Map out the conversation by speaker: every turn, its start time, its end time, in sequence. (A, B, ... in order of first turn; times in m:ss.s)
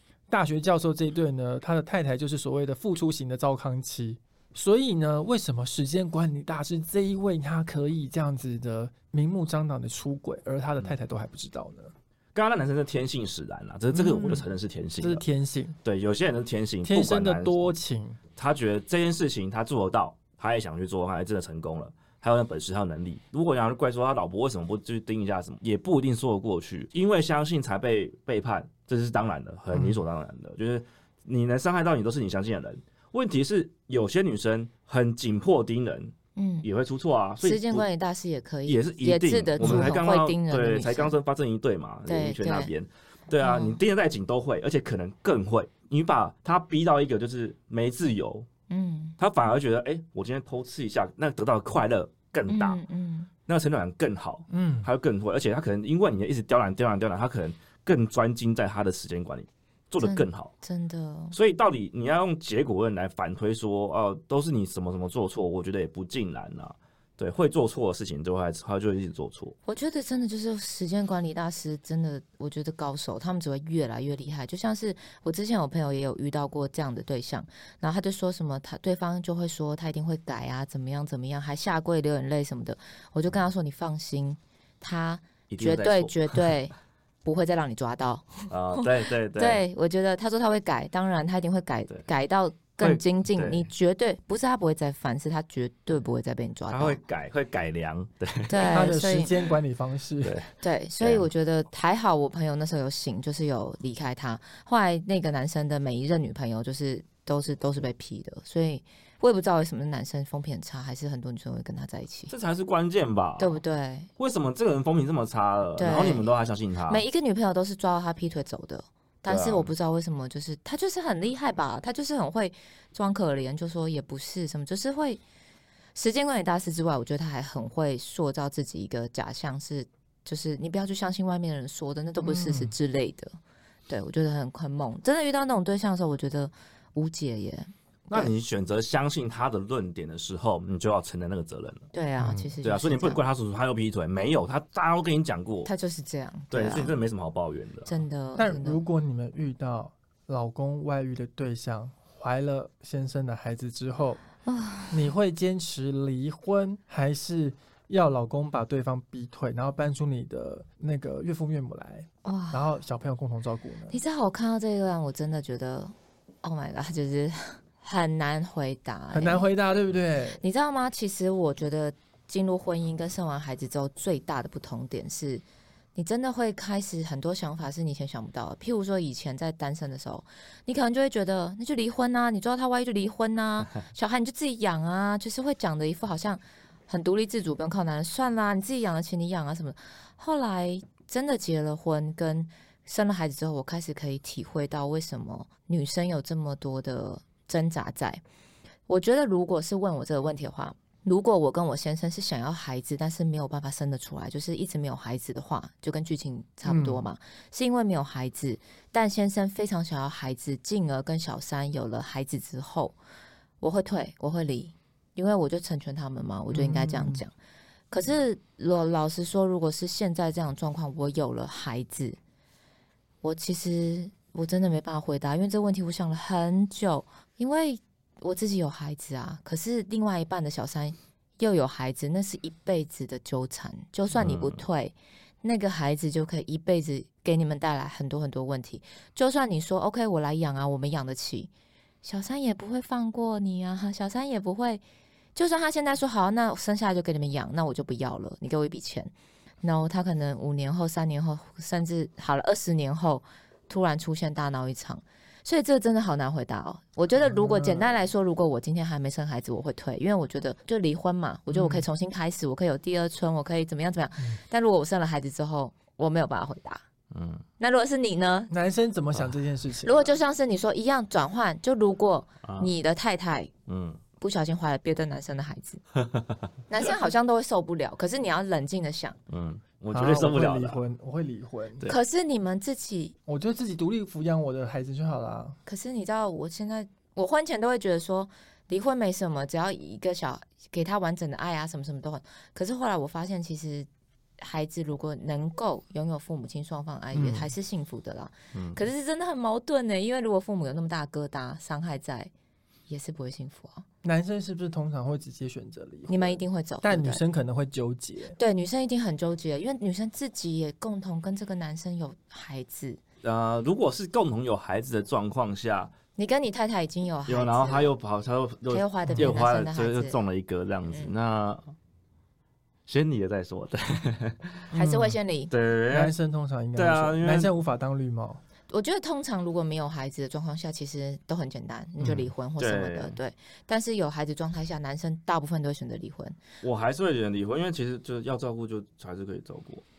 0:00.3-0:11.9 A
0:12.3-0:15.2 B
0:13.9-0:14.5 A
0:15.0-0:15.8 A
0:15.8-0:17.7 B
0:16.8-0:18.2 A
0:18.4-0:37.9 B
0:29.7-0:30.0 A
0:36.3-0:36.7 C
0:37.4-0:41.1 C
0:38.6-0:48.5 B
0:39.6-0:40.0 A
0:42.1-0:42.7 C
0:43.4-0:43.8 C
0:48.7-0:49.2 C
0:49.2-0:52.8 B
0:52.5-0:53.3 C
0:53.4-1:00.5 B
0:54.5-0:54.9 A
1:00.0-1:01.4 C
1:01.3-1:09.6 B
1:09.6-1:26.7 C
1:25.5-1:26.5 B
1:27.2-1:37.0 C
1:28.5-1:29.6 B
1:32.8-1:33.7 B
1:36.7-1:38.7 B
1:38.5-1:39.3 C
1:38.6-1:40.4 A
1:40.2-1:41.3 B
1:40.6-1:52.3 C
1:52.3-1:53.6 B
1:53.4-1:54.1 C
1:54.2-1:57.0 B
1:55.8-1:56.3 C
1:56.9-2:05.2 C
1:59.2-1:59.7 B
2:05.9-2:13.3 C
2:12.2-2:12.7 A
2:13.9-2:18.3 C
2:18.1-2:21.9 B
2:21.9-2:23.2 C
2:22.2-2:22.5 A
2:22.6-2:25.7 B
2:25.6-2:27.0 C
2:26.5-2:28.0 B
2:27.9-2:28.8 C
2:28.4-2:34.2 A
2:34.4-2:35.1 C
2:34.9-2:44.0 A
2:42.2-2:42.7 C
2:43.9-2:49.5 C
2:49.1-2:50.4 A
2:50.4-3:18.2 C
3:18.9-3:33.0 C
3:26.6-3:27.0 A
3:33.6-3:37.3 C
3:36.5-3:37.2 A
3:37.9-3:42.2 C
3:43.2-4:01.5 C
3:54.1-3:54.6 B
4:02.0-4:04.8 C
4:05.3-4:26.8 C
4:17.2-4:17.9 A
4:21.5-4:21.8 A
4:27.1-4:27.4 B
4:27.6-4:28.5 C
4:28.5-4:30.1 A
4:29.8-4:33.5 C
4:32.4-4:32.7 B
4:33.7-4:34.0 B
4:34.2-4:35.8 C
4:36.7-4:39.2 C
4:39.3-4:40.8 B
4:39.9-4:41.8 A
4:41.8-4:43.2 C
4:43.3-4:45.6 A
4:45.6-4:53.9 C
4:54.4-5:02.3 C
4:57.1-4:57.5 A
4:58.5-4:58.8 B
5:02.9-5:03.8 C
5:04.0-5:08.4 A
5:06.1-5:07.2 C
5:08.4-5:13.0 C
5:13.2-5:15.9 B
5:16.2-5:17.9 C
5:17.3-5:21.7 B
5:18.7-5:20.2 C
5:19.1-5:19.4 A
5:22.9-5:24.7 B
5:24.7-5:25.2 A
5:24.7-5:25.5 C
5:25.5-5:26.1 B
5:25.9-5:28.4 A
5:26.8-5:27.5 B
5:28.7-5:36.4 C
5:32.0-5:32.3 A
5:32.6-5:33.2 B
5:36.6-5:39.8 B